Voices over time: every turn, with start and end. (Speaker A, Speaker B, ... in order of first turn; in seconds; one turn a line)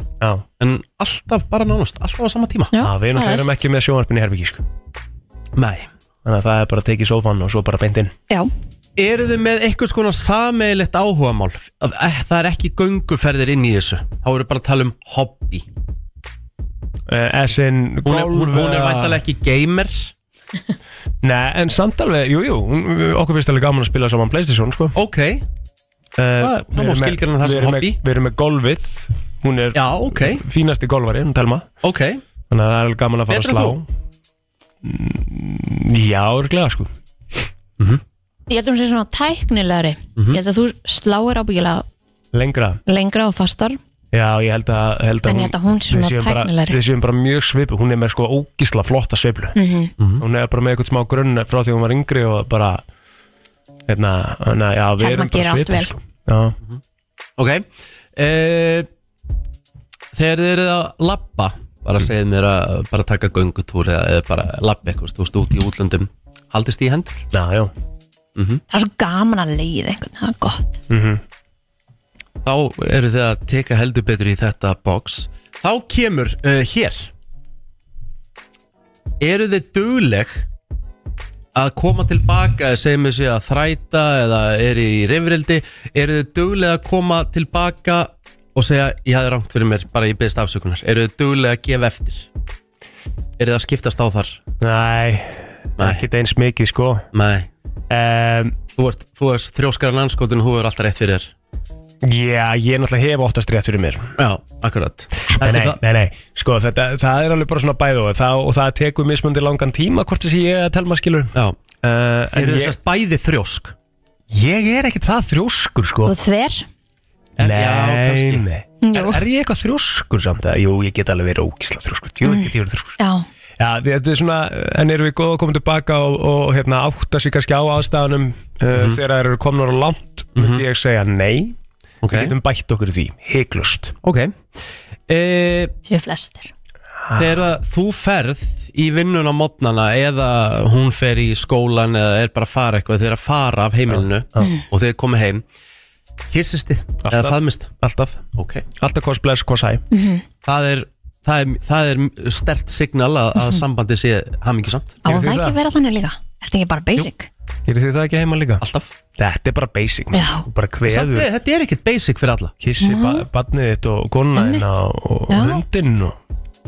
Speaker A: 0.6-2.7
Speaker B: 2.7-3.6
Speaker C: 2.8-4.6
Speaker A: 5.5-5.9
Speaker C: 6.2-8.1
Speaker A: 9.0-15.6
Speaker C: 17.1-19.2
Speaker A: 18.1-20.1
Speaker C: 21.2-24.9
Speaker A: 24.9-25.4
Speaker C: 26.2-31.7
Speaker A: 26.4-28.0
Speaker A: 29.7-30.4
Speaker A: 31.8-32.2
Speaker C: 32.5-33.9
Speaker A: 33.3-33.8
Speaker C: 34.8-36.9
Speaker B: 38.5-41.8
Speaker C: 42.3-42.8
Speaker B: 42.9-43.8
Speaker C: 44.1-49.6
Speaker B: 45.2-46.8
Speaker B: 49.5-49.9
Speaker A: 50.0-50.2
Speaker C: 50.2-52.8
Speaker C: 53.9-56.5
Speaker B: 55.0-55.9
Speaker A: 57.4-58.9
Speaker A: 60.1-67.2
Speaker C: 67.3-67.7
Speaker A: 68.3-68.6
Speaker B: 68.7-70.8
Speaker C: 70.9-71.2
Speaker A: 72.4-77.1
Speaker A: 79.2-80.5
Speaker A: 81.5-92.3
Speaker A: 93.4-94.4
Speaker C: 94.6-97.1
Speaker A: 95.8-96.0
Speaker A: 97.1-97.5
Speaker C: 97.9-98.6
Speaker A: 98.8-101.3
Speaker C: 102.0-104.1
Speaker A: 104.2-105.8
Speaker C: 105.4-112.7
Speaker A: 112.3-113.7
Speaker C: 114.3-116.2
Speaker B: 116.0-116.7
Speaker A: 117.4-118.4
Speaker C: 117.4-123.0
Speaker B: 118.8-119.2
Speaker B: 122.2-123.2
Speaker C: 123.6-131.6
Speaker A: 128.7-129.0
Speaker A: 130.3-130.6
Speaker A: 132.0-132.3
Speaker C: 132.1-133.9
Speaker A: 134.0-135.7
Speaker B: 135.8-136.5
Speaker C: 137.0-137.4
Speaker A: 137.2-145.4
Speaker C: 143.9-144.5
Speaker A: 146.3-147.7
Speaker C: 147.0-148.2
Speaker A: 148.3-148.6
Speaker C: 148.8-149.8
Speaker B: 149.9-150.2
Speaker A: 150.4-155.0
Speaker C: 155.0-155.6
Speaker B: 155.0-157.3
Speaker C: 157.7-158.6
Speaker A: 158.6-158.9
Speaker C: 159.2-161.3
Speaker B: 160.1-160.4
Speaker A: 160.8-162.5
Speaker C: 162.6-166.2
Speaker B: 162.8-163.2
Speaker B: 164.3-164.7
Speaker B: 165.3-165.6